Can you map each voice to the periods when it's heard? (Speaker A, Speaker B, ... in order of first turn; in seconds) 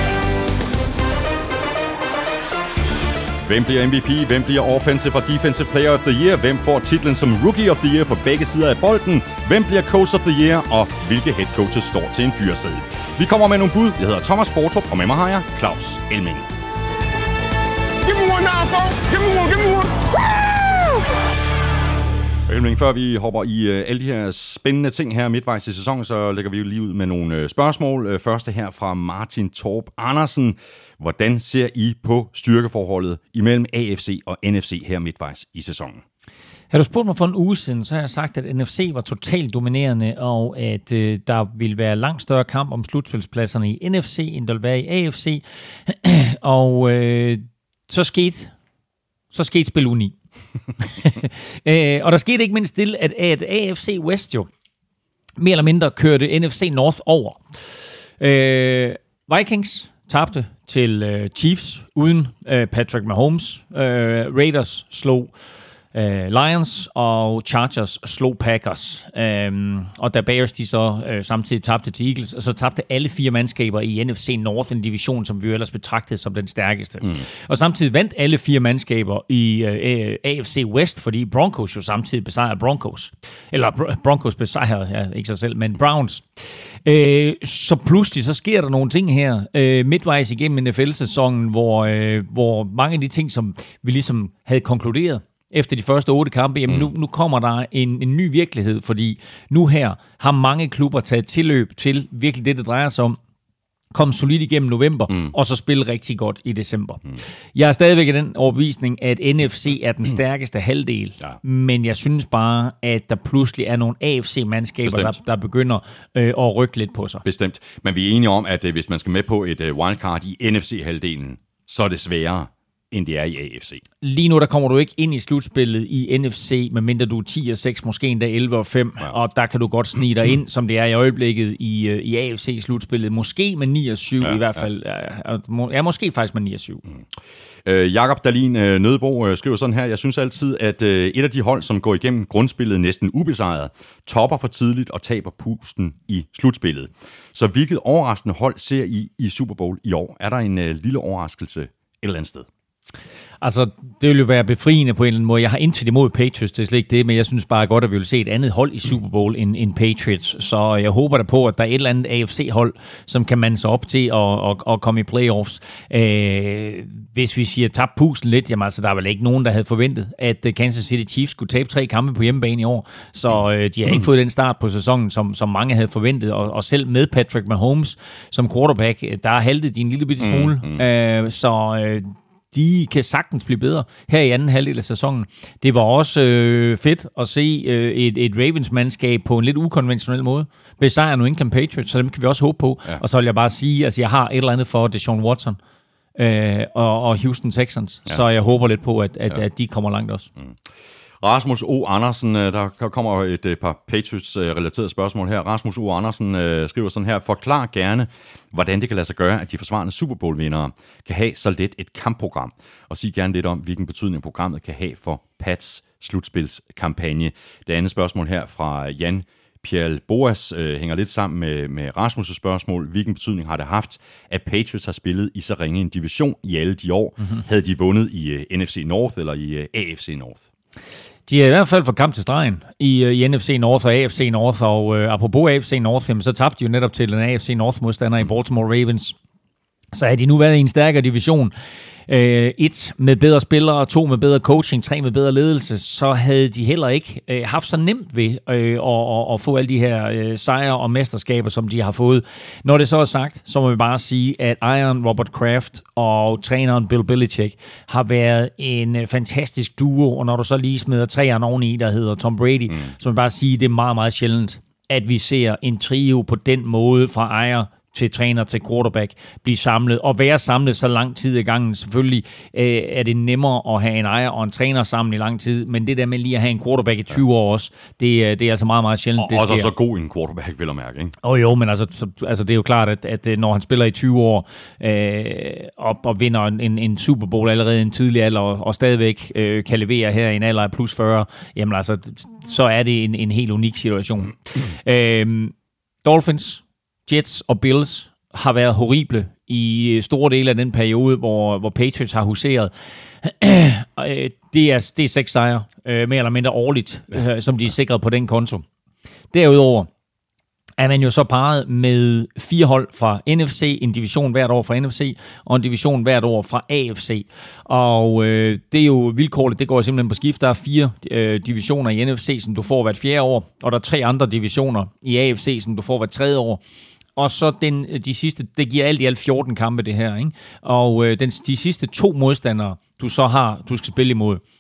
Speaker A: 3.4-16.5, 22.5-36.0, 114.8-115.2, 117.2-123.8, 137.7-152.5, 180.2-180.8, 201.2-230.5, 279.2-281.2
Speaker B: 18.0-21.0
Speaker C: 36.7-48.5, 49.3-50.1, 50.8-54.5, 55.4-65.3, 65.9-103.2, 103.9-117.2, 124.0-136.8, 153.4-195.6, 196.2-200.3, 231.3-239.2, 239.9-241.5, 242.1-279.7, 281.2-308.6, 309.3-309.9, 310.8-326.6, 327.2-334.4